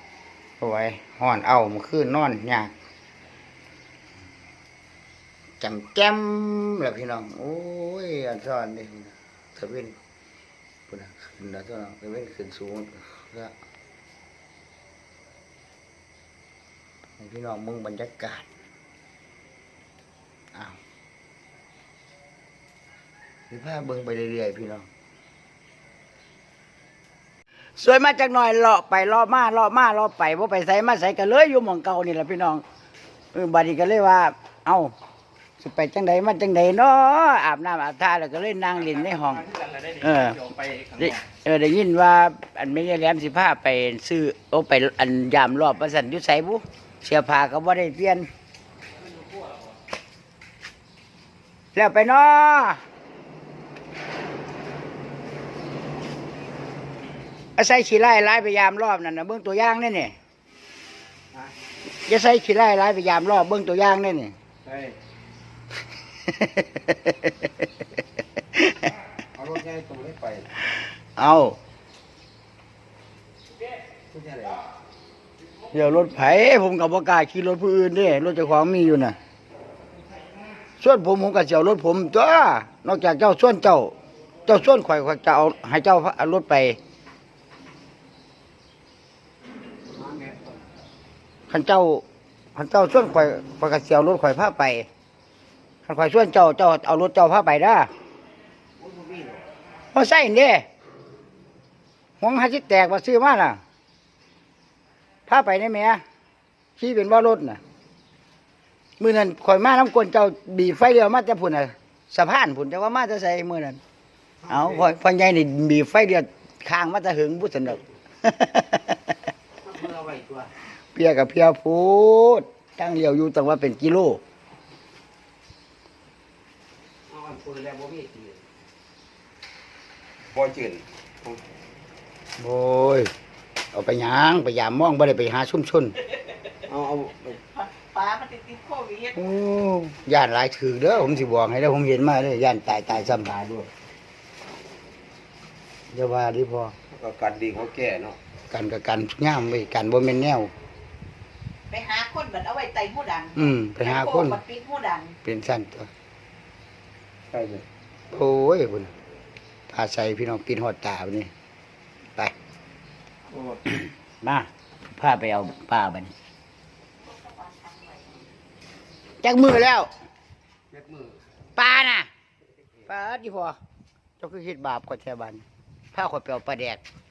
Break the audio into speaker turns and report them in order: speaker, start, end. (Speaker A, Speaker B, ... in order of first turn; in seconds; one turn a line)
Speaker A: 0.6-2.7
Speaker A: 5.6-9.9
Speaker A: 10.9-13.5
Speaker A: 17.2-18.4
Speaker A: 23.5-24.9
Speaker A: 27.8-32.6
Speaker A: 33.3-34.9
Speaker A: 35.6-48.3
Speaker A: 51.7-52.8
Speaker A: 57.6-60.1
Speaker A: 62.0-64.3
Speaker B: 64.6-65.0
Speaker A: 66.3-67.5
Speaker A: 68.5-68.9
Speaker B: 69.3-70.5
Speaker A: 70.7-71.6
Speaker B: 74.1-74.6
Speaker A: 75.7-79.2
Speaker A: 80.8-83.9
Speaker A: 84.5-86.8
Speaker B: 90.0-90.5
Speaker A: 91.5-92.0
Speaker A: 92.5-94.9
Speaker A: 95.8-97.9
Speaker B: 98.8-99.4
Speaker A: 99.9-100.7
Speaker A: 102.2-103.6
Speaker A: 105.3-106.0
Speaker A: 106.8-107.6
Speaker A: 109.0-113.8
Speaker B: 114.4-114.9
Speaker A: 114.5-119.0
Speaker B: 119.6-120.5
Speaker A: 120.9-124.2
Speaker B: 127.1-128.4
Speaker B: 130.3-131.4
Speaker A: 132.4-133.1
Speaker A: 133.7-135.9
Speaker B: 136.7-137.4
Speaker C: 137.6-139.1
Speaker A: 139.1-143.4
Speaker B: 143.1-143.7
Speaker A: 145.9-146.8
Speaker B: 146.9-148.2
Speaker A: 148.5-150.5
Speaker C: 151.7-155.1
Speaker A: 153.3-154.4
Speaker A: 155.2-155.9
Speaker B: 157.3-157.6
Speaker A: 158.1-158.9
Speaker A: 159.7-161.3
Speaker B: 163.3-163.6
Speaker A: 164.2-166.1
Speaker A: 169.2-169.9
Speaker B: 170.7-171.2
Speaker A: 171.6-172.1
Speaker A: 172.8-173.6
Speaker A: 174.2-176.8